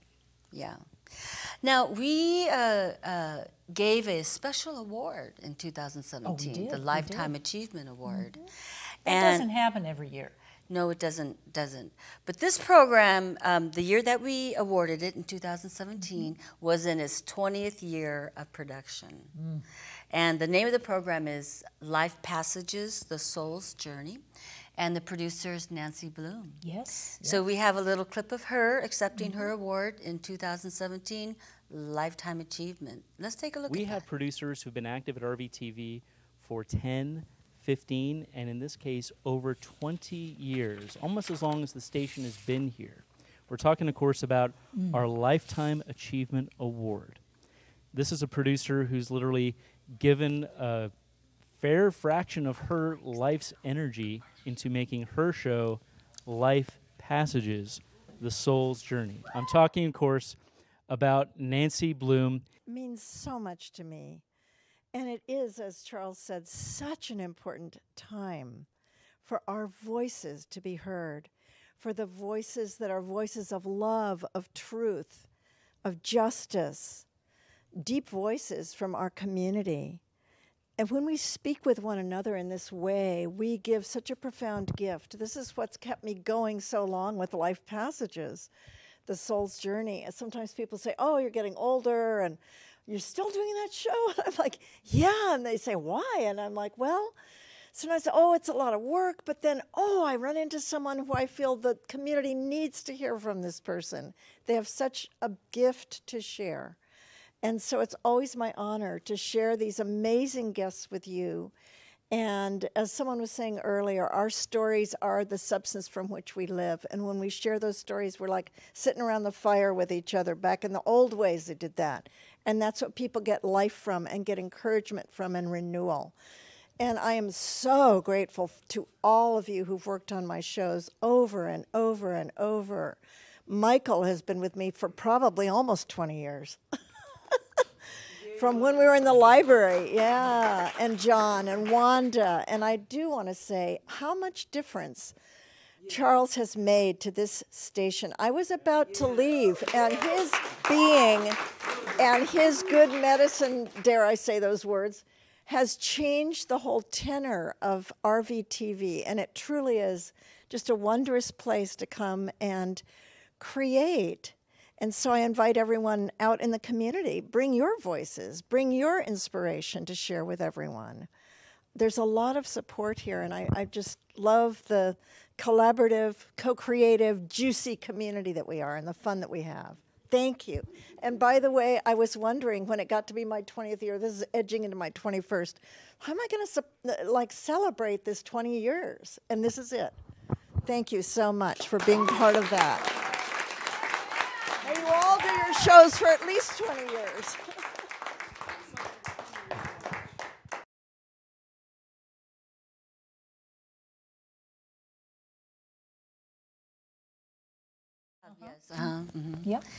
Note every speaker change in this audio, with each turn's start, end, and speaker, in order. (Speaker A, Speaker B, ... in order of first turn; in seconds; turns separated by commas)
Speaker A: 0.5-8.4, Speaker B: 6.2-7.3, Speaker B: 8.1-8.3, Speaker A: 9.0-9.4, Speaker B: 9.1-10.3, Speaker A: 10.7-19.3, Speaker B: 19.3-19.6, Speaker A: 20.1-24.2, Speaker A: 24.8-26.6, Speaker B: 26.6-27.4, Speaker A: 27.2-34.0, Speaker B: 29.1-29.5, Speaker C: 33.7-47.2, Speaker B: 44.7-45.1, Speaker C: 47.9-62.5, Speaker D: 62.7-64.2, Speaker D: 64.9-68.7, Speaker D: 69.2-75.2, Speaker D: 75.8-77.0, Speaker D: 77.8-80.0, Speaker D: 80.8-88.5, Speaker D: 89.0-97.1, Speaker D: 97.7-106.8, Speaker D: 107.4-111.5, Speaker D: 112.1-126.1, Speaker D: 126.8-136.6, Speaker D: 138.3-145.1, Speaker D: 145.8-151.4, Speaker D: 151.9-162.8, Speaker D: 163.4-171.1, Speaker D: 171.8-189.9, Speaker D: 190.6-192.9, Speaker D: 194.6-197.4, Speaker B: 208.4-208.9, Speaker A: 208.4-209.5